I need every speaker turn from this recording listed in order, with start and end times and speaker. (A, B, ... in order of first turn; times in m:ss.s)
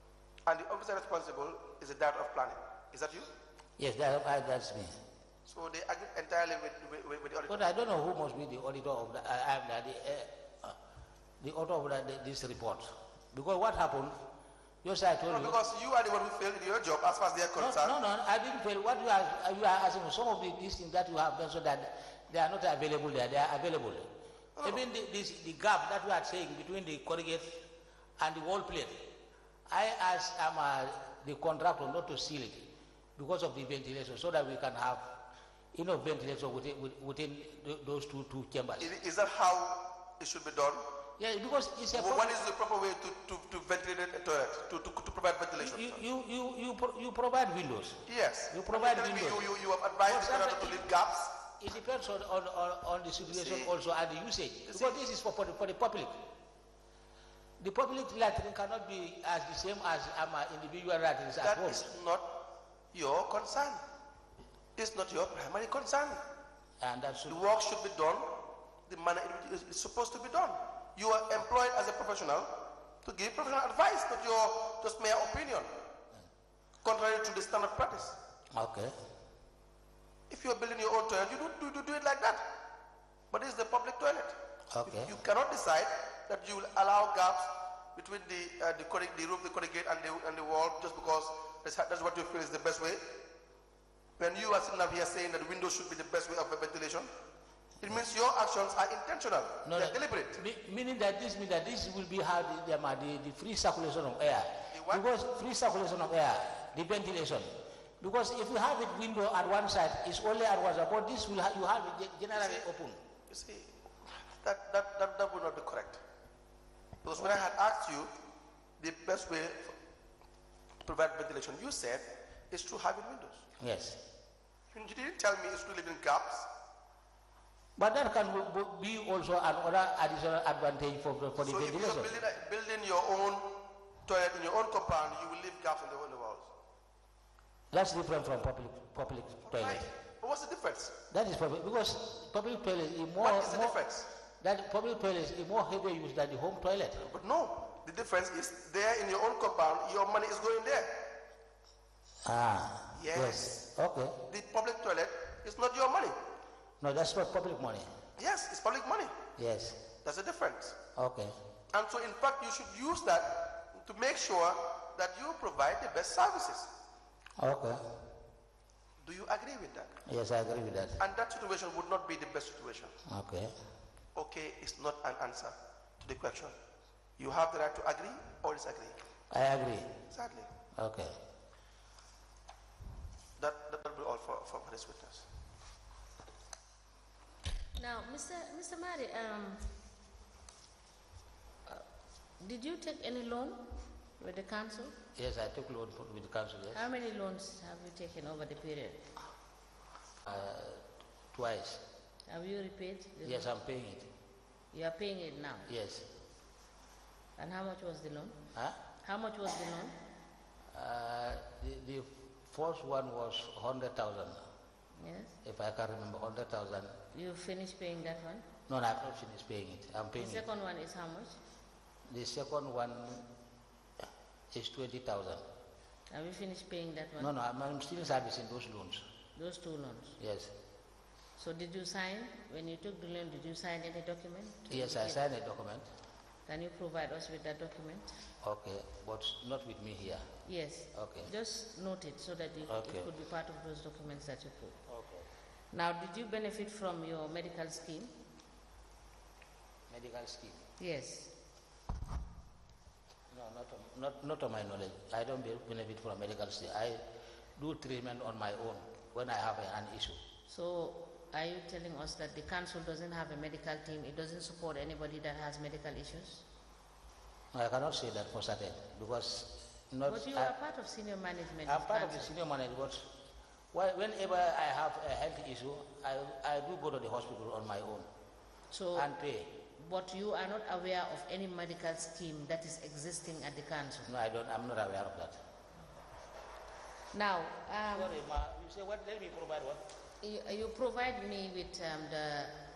0:00.5-0:03.3 A
0:03.8-0:05.0 B
0:05.5-0:07.7 A
0:07.5-0:10.8 B
0:11.4-0:14.2 B
0:14.8-0:15.6 B
0:15.3-0:18.0 A
0:17.6-0:24.1 B
0:24.6-0:24.8 A
0:24.6-0:27.6 B
0:28.2-0:29.0 B
0:29.7-0:35.1 B
0:35.7-0:38.9 B
0:38.8-0:40.8 A
0:41.2-0:42.4 B
0:41.9-0:46.0 A
0:45.6-0:49.5 B
0:48.1-0:51.4 A
0:50.0-0:50.9 B
0:51.6-0:56.2 B
0:53.3-0:53.7 A
0:54.7-0:55.0 A
0:57.6-1:01.9 B
1:01.4-1:02.4 A
1:02.9-1:03.8 A
1:04.8-1:06.2 A
1:06.8-1:07.4 B
1:07.3-1:12.5 A
1:13.0-1:15.7 A
1:16.8-1:18.2 A
1:18.5-1:19.0 B
1:20.3-1:22.4 A
1:23.3-1:33.1 A
1:24.7-1:25.1 B
1:34.2-1:37.1 A
1:37.8-1:40.4 A
1:39.6-1:53.0 B
1:44.7-1:45.0 A
1:52.3-1:52.7 A
1:53.3-1:56.0 A
1:57.0-1:58.1 A
1:58.8-1:59.8 A
2:00.8-2:03.4 A
2:03.6-2:04.0 B
2:04.7-2:06.5 A
2:07.8-2:12.2 B
2:11.4-2:16.5 A
2:17.7-2:19.8 B
2:19.4-2:20.9 A
2:21.1-2:23.8 B
2:23.2-2:24.1 A
2:24.4-2:27.0 B
2:27.0-2:31.1 A
2:32.2-2:34.2 B
2:32.9-2:33.7 A
2:34.2-2:36.2 A
2:36.8-2:37.9 B
2:38.2-2:39.2 A
2:39.4-2:39.8 B
2:40.0-2:40.8 A
2:41.0-2:41.4 B
2:41.7-2:46.7 A
2:47.4-2:47.8 B
2:49.0-2:50.0 A
2:50.0-2:51.0 B
2:51.0-2:52.9 A
2:53.0-2:53.5 B
2:54.2-2:56.5 A
2:57.2-2:59.0 A
2:59.3-2:59.9 B
3:00.1-3:00.5 A
3:00.7-3:01.2 B
3:03.4-3:05.3 A
3:07.8-3:09.8 C
3:12.4-3:14.9 C
3:15.1-3:16.8 B
3:16.7-3:19.0 C
3:20.2-3:21.8 B
3:22.3-3:23.5 C
3:23.2-3:24.1 B
3:24.7-3:25.7 C
3:25.7-3:26.1 B
3:27.4-3:28.4 C
3:29.0-3:29.9 C
3:30.7-3:34.4 B
3:35.0-3:35.3 C
3:35.4-3:37.0 B
3:37.1-3:38.5 C
3:38.7-3:40.4 B
3:40.1-3:41.4 C
3:42.1-3:43.3 B
3:44.5-3:45.4 B
3:46.1-3:47.3 C
3:47.2-3:49.0 B
3:49.3-3:50.2 C
3:50.2-3:50.5 B
3:51.4-3:55.2 C
3:54.7-3:55.9 B
3:56.4-3:58.2 C
3:58.4-4:00.3 B
4:00.4-4:04.8 C
4:00.9-4:01.3 B
4:02.7-4:03.1 B
4:04.9-4:05.2 B
4:05.7-4:08.1 C
4:09.9-4:10.7 B
4:10.8-4:11.3 C
4:13.3-4:17.0 B
4:17.6-4:20.2 B
4:20.5-4:26.4 C
4:27.5-4:30.5 B
4:30.1-4:32.3 C
4:31.6-4:33.1 B
4:33.7-4:38.1 B
4:38.7-4:39.1 C
4:38.9-4:39.6 B
4:39.8-4:44.1 C
4:44.1-4:45.4 B
4:47.1-4:48.2 C
4:47.9-4:49.8 B
4:50.2-4:52.6 C